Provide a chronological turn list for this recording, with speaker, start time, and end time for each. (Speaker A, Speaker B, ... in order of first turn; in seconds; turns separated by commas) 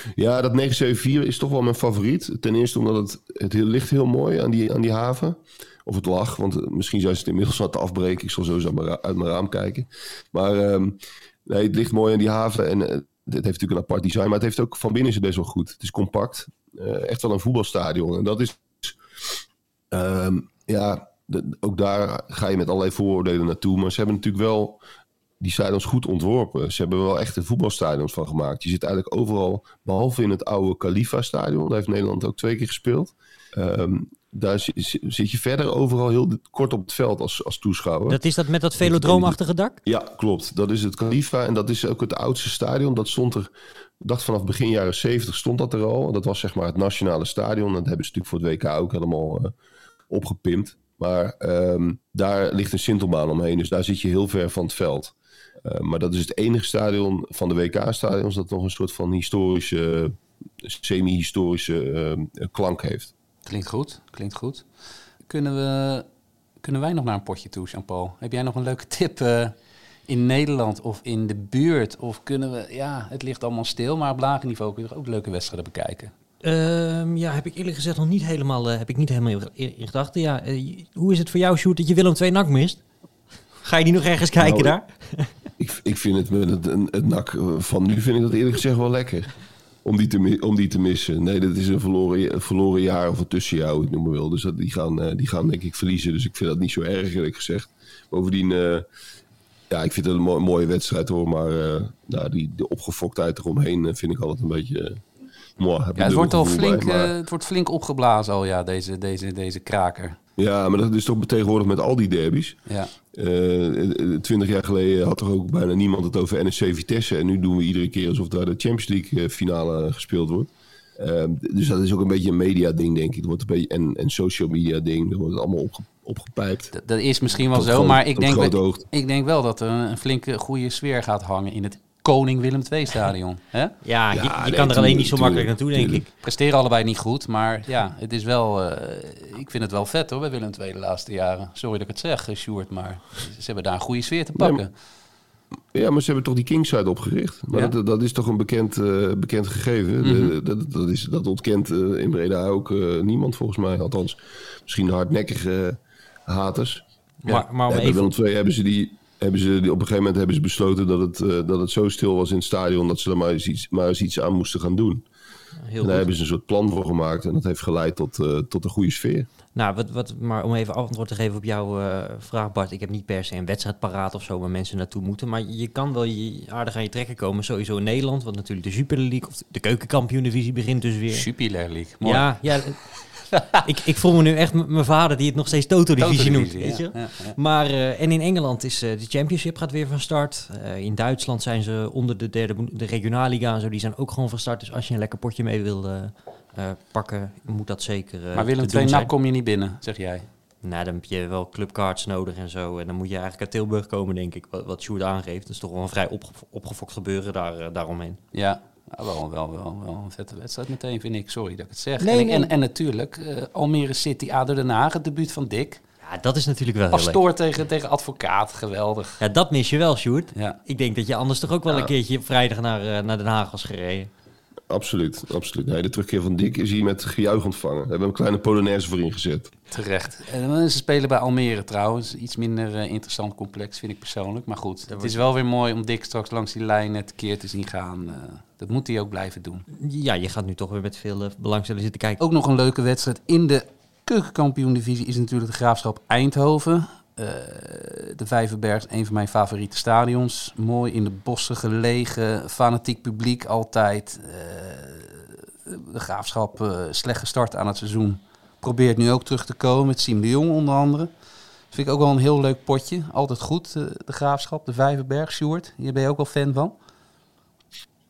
Speaker A: 0.1-19.0, Speaker A: 19.9-24.8, Speaker A: 25.4-38.2, Speaker B: 38.1-39.8, Speaker A: 38.8-49.5, Speaker A: 50.1-55.1, Speaker A: 55.6-63.1, Speaker C: 63.4-64.7, Speaker C: 65.2-66.0, Speaker C: 66.6-69.6, Speaker C: 70.1-76.1, Speaker B: 76.4-82.8, Speaker B: 83.6-85.3, Speaker A: 84.4-84.8, Speaker A: 85.6-89.3, Speaker A: 89.8-98.8, Speaker A: 99.7-105.0, Speaker A: 105.6-107.1, Speaker C: 106.0-110.2, Speaker A: 110.4-112.6, Speaker C: 112.7-112.9, Speaker A: 113.1-126.7, Speaker C: 126.7-133.8, Speaker A: 127.5-128.8, Speaker B: 133.8-136.1, Speaker A: 134.1-136.0, Speaker C: 136.2-144.7, Speaker A: 144.4-144.6, Speaker A: 145.7-156.8, Speaker C: 150.0-150.3, Speaker B: 157.2-158.1, Speaker A: 157.7-165.1, Speaker B: 165.7-166.1, Speaker A: 165.8-169.3, Speaker B: 169.6-181.3, Speaker C: 181.1-183.6, Speaker B: 182.0-183.0, Speaker B: 183.6-199.1, Speaker C: 186.0-187.4, Speaker C: 198.3-200.2, Speaker B: 200.6-208.2, Speaker C: 208.3-215.8, Speaker B: 212.0-212.5, Speaker B: 216.0-217.2, Speaker C: 216.9-219.2, Speaker B: 219.2-224.1, Speaker C: 220.3-220.6, Speaker A: 224.7-229.5, Speaker C: 229.7-239.6, Speaker B: 234.9-235.1, Speaker B: 239.7-242.2, Speaker C: 242.2-261.1, Speaker C: 261.7-266.8